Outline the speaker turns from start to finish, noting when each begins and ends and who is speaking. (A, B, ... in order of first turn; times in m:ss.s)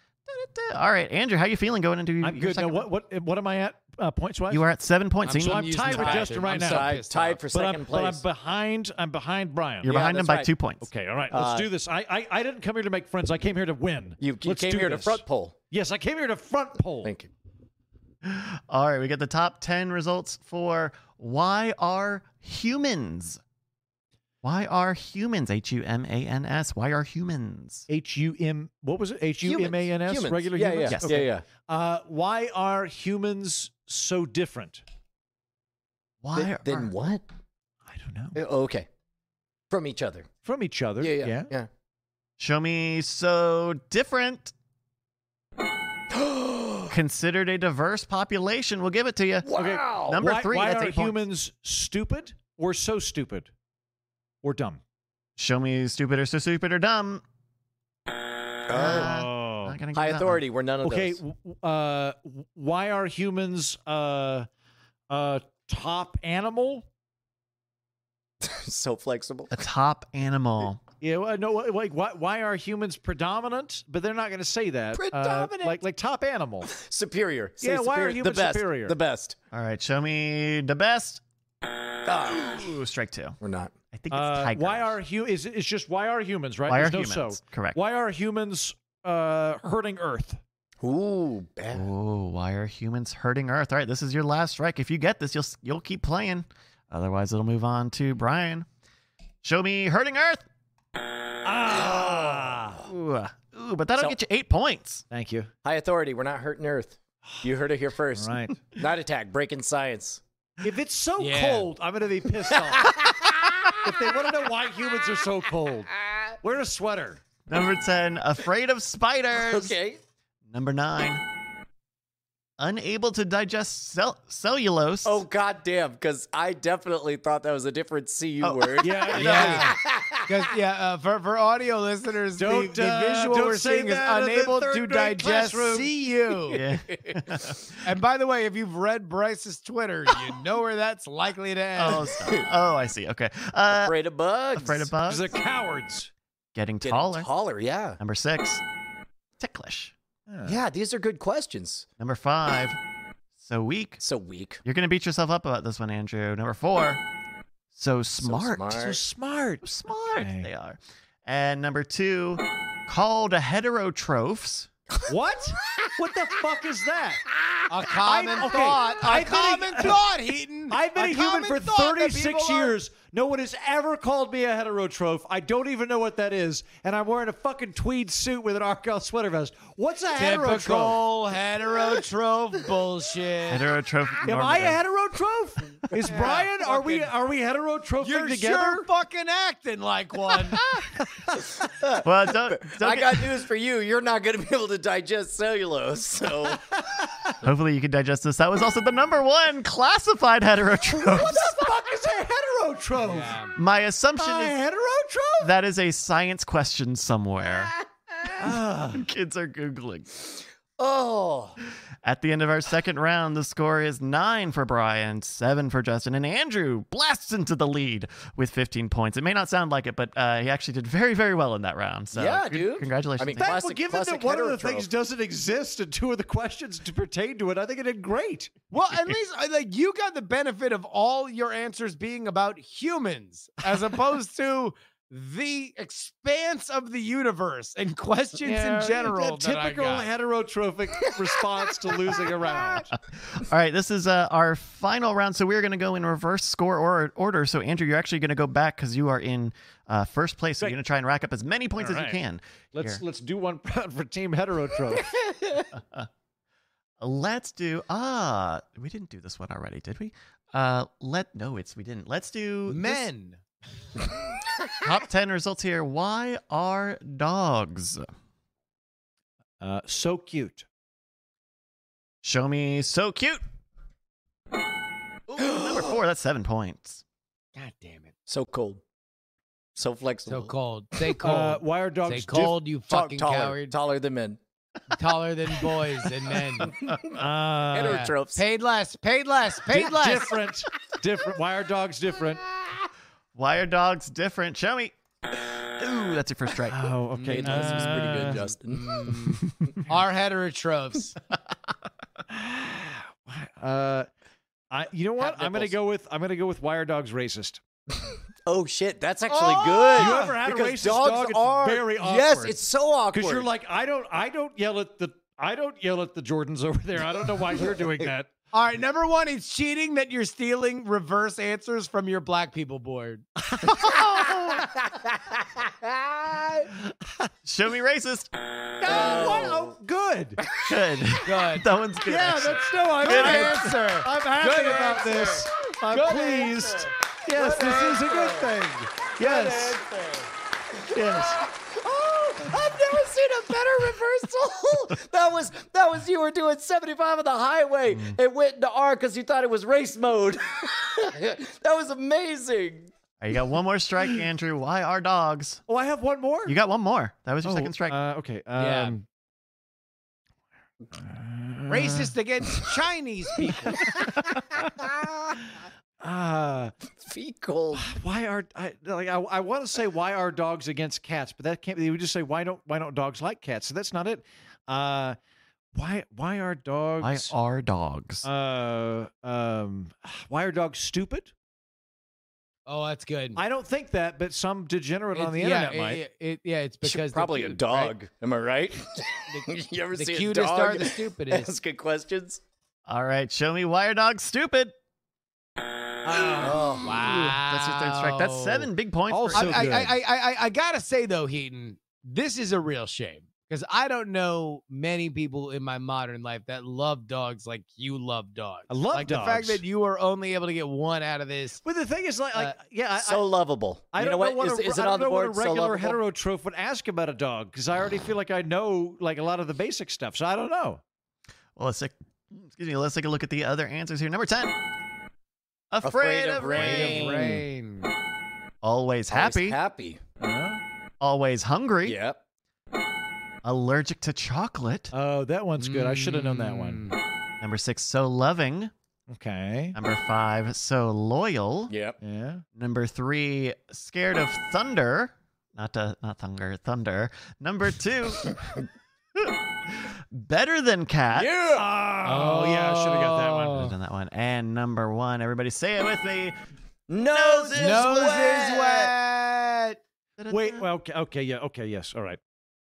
0:00.3-0:02.9 A
0:02.2-0:04.6 B
0:04.5-0:06.2 A
0:05.2-0:07.4 C
0:05.3-0:09.9 B
0:06.2-0:08.2 D
0:09.8-0:10.9 A
0:09.8-0:10.5 D
0:10.8-0:17.1 B
0:11.3-0:11.7 D
0:14.2-0:15.5 D
0:17.0-0:17.3 D
0:18.2-0:23.4 A
0:24.4-0:27.8 A
0:27.9-0:34.8 B
0:29.4-0:31.4 D
0:30.9-0:31.2 A
0:36.2-0:36.9 A
0:36.3-0:37.2 D
0:37.8-0:38.4 B
0:38.3-0:38.9 D
0:39.7-0:40.3 D
0:40.4-0:41.5 B
0:41.0-0:41.7 D
0:42.4-0:44.5 A
0:46.1-0:46.9 D
0:46.9-0:51.1 A
0:49.4-0:50.2 D
0:49.5-0:53.5 B
0:54.4-0:54.8 B
0:55.4-0:57.2 A
0:58.7-0:59.2 D
0:58.7-1:00.4 A
0:58.7-0:59.8 B
0:59.9-1:01.2 D
1:00.8-1:04.5 B
1:05.1-1:06.8 B
1:08.4-1:09.5 D
1:09.5-1:10.8 A
1:11.0-1:16.7 B
1:14.9-1:15.8 D
1:16.6-1:19.4 D
1:17.6-1:19.0 B
1:19.5-1:21.2 A
1:22.0-1:22.7 D
1:22.5-1:23.4 A
1:23.4-1:23.7 D
1:23.9-1:24.9 A
1:24.1-1:30.4 B
1:26.7-1:27.8 A
1:30.8-1:31.9 D
1:31.7-1:38.6 A
1:39.4-1:40.4 A
1:41.4-1:42.8 B
1:41.7-1:42.8 D
1:42.8-1:45.0 A
1:45.1-1:45.5 B
1:45.6-1:50.2 D
1:48.2-1:48.6 B
1:50.6-1:53.0 B
1:51.2-1:51.7 C
1:52.5-1:53.8 D
1:53.8-1:57.2 B
1:56.1-1:56.3 D
1:57.5-1:59.7 A
1:59.3-2:00.0 D
2:00.5-2:01.2 A
2:02.6-2:05.2 A
2:05.0-2:10.3 D
2:08.4-2:09.6 A
2:08.8-2:09.7 B
2:09.2-2:09.7 C
2:10.2-2:16.6 C
2:12.4-2:15.9 B
2:16.5-2:17.7 A
2:16.5-2:17.5 D
2:17.8-2:22.0 C
2:21.8-2:23.9 A
2:22.0-2:22.5 D
2:23.7-2:24.9 D
2:24.6-2:25.3 A
2:25.1-2:26.1 B
2:26.5-2:27.3 A
2:26.8-2:28.0 D
2:28.0-2:28.6 A
2:29.4-2:29.9 A
2:30.3-2:30.6 B
2:30.4-2:31.9 D
2:32.0-2:32.8 A
2:33.4-2:34.0 A
2:34.0-2:34.6 D
2:34.6-2:37.0 A
2:37.7-2:38.8 A
2:38.2-2:39.0 D
2:38.7-2:39.6 B
2:39.6-2:44.7 A
2:40.2-2:40.5 B
2:45.0-2:47.2 B
2:47.7-2:52.7 C
2:48.0-2:50.1 B
2:50.7-3:01.0 B
3:00.1-3:03.7 C
3:03.5-3:04.8 A
3:04.2-3:08.9 B
3:06.0-3:07.1 C
3:08.0-3:10.6 C
3:11.7-3:16.7 D
3:12.0-3:13.3 A
3:16.9-3:17.3 B
3:17.4-3:21.6 A
3:21.0-3:23.4 B
3:23.0-3:23.5 C
3:23.5-3:24.6 A
3:24.2-3:25.5 B
3:25.4-3:27.8 A
3:28.4-3:29.0 B
3:28.9-3:30.2 A
3:30.8-3:31.6 D
3:32.0-3:43.5 A
3:42.1-3:44.9 D
3:43.4-3:48.5 B
3:48.7-4:00.1 C
3:58.4-4:02.8 B
4:02.3-4:02.7 D
4:03.3-4:13.0 A
4:11.8-4:12.2 B
4:12.7-4:15.1 B
4:15.7-4:16.1 A
4:17.0-4:23.0 A
4:22.7-4:23.4 C
4:24.8-4:28.1 A
4:29.6-4:30.6 B
4:32.2-4:33.4 A
4:35.3-4:35.9 D
4:35.4-4:37.0 A
4:37.5-4:38.1 C
4:38.3-4:38.8 D
4:39.7-4:40.5 D
4:40.3-4:43.8 C
4:41.2-4:42.6 B
4:42.9-4:44.4 D
4:44.9-4:46.8 C
4:46.6-4:47.2 D
4:47.1-4:48.1 B
4:47.7-4:48.4 D
4:47.8-4:50.3 C
4:49.7-4:52.4 B
4:53.3-4:54.9 A
4:55.8-4:56.8 A
4:56.7-4:58.4 B
4:57.2-4:58.0 C
4:57.2-4:59.2 D
4:58.7-5:01.2 C
5:02.3-5:04.1 B
5:04.7-5:07.6 B
5:05.4-5:05.7 D
5:08.1-5:13.5 D
5:09.3-5:10.3 C
5:09.9-5:12.6 B
5:13.1-5:18.3 B
5:18.5-5:23.2 C
5:23.5-5:24.0 B
5:23.7-5:24.6 A
5:25.0-5:26.7 C
5:27.4-5:28.3 A
5:28.8-5:30.4 B
5:28.8-5:29.8 D
5:30.7-5:33.7 A
5:31.2-5:31.6 C
5:32.0-5:39.8 B
5:33.0-5:38.5 C
5:39.2-5:40.2 C
5:39.3-5:39.8 D
5:40.9-5:52.9 D
5:40.9-5:41.4 B
5:47.9-5:48.2 A
5:53.2-5:55.6 A
5:55.7-5:56.6 B
5:56.4-5:58.0 A
5:57.4-5:59.0 B
5:58.6-5:58.9 C
6:01.0-6:02.1 B
6:01.7-6:03.8 C
6:06.0-6:06.7 B
6:07.0-6:07.8 D
6:07.7-6:15.2 B
6:15.7-6:17.3 B
6:17.0-6:18.3 A
6:18.2-6:21.3 B
6:22.6-6:23.4 C
6:23.4-6:26.0 B
6:25.1-6:27.9 C
6:26.8-6:32.4 D
6:29.3-6:31.5 C
6:32.9-6:34.7 A
6:36.0-6:38.7 C
6:36.4-6:37.0 D
6:36.9-6:39.9 A
6:39.1-6:39.9 B
6:39.3-6:51.6 C
6:48.7-6:49.6 B
6:51.6-6:53.2 B
6:53.0-6:56.0 D
6:53.9-7:00.8 B
7:01.6-7:04.6 A
7:05.7-7:07.4 A
7:05.8-7:07.3 D
7:06.4-7:07.9 C
7:08.6-7:09.6 A
7:09.1-7:10.0 D
7:10.2-7:10.6 B
7:11.0-7:12.0 A
7:11.8-7:12.2 D
7:13.4-7:14.9 A
7:14.9-7:16.8 B
7:15.6-7:16.9 C
7:17.4-7:18.7 A
7:19.1-7:19.8 B
7:19.7-7:21.7 A
7:21.7-7:22.0 D
7:22.0-7:22.4 B
7:22.5-7:28.6 A
7:29.2-7:31.3 A
7:31.1-7:31.7 D
7:31.5-7:33.7 B
7:32.0-7:33.6 C
7:33.5-7:36.3 A
7:36.9-7:38.8 D
7:37.0-7:38.9 A
7:37.5-7:39.8 C
7:40.2-7:40.6 A
7:40.3-7:42.2 B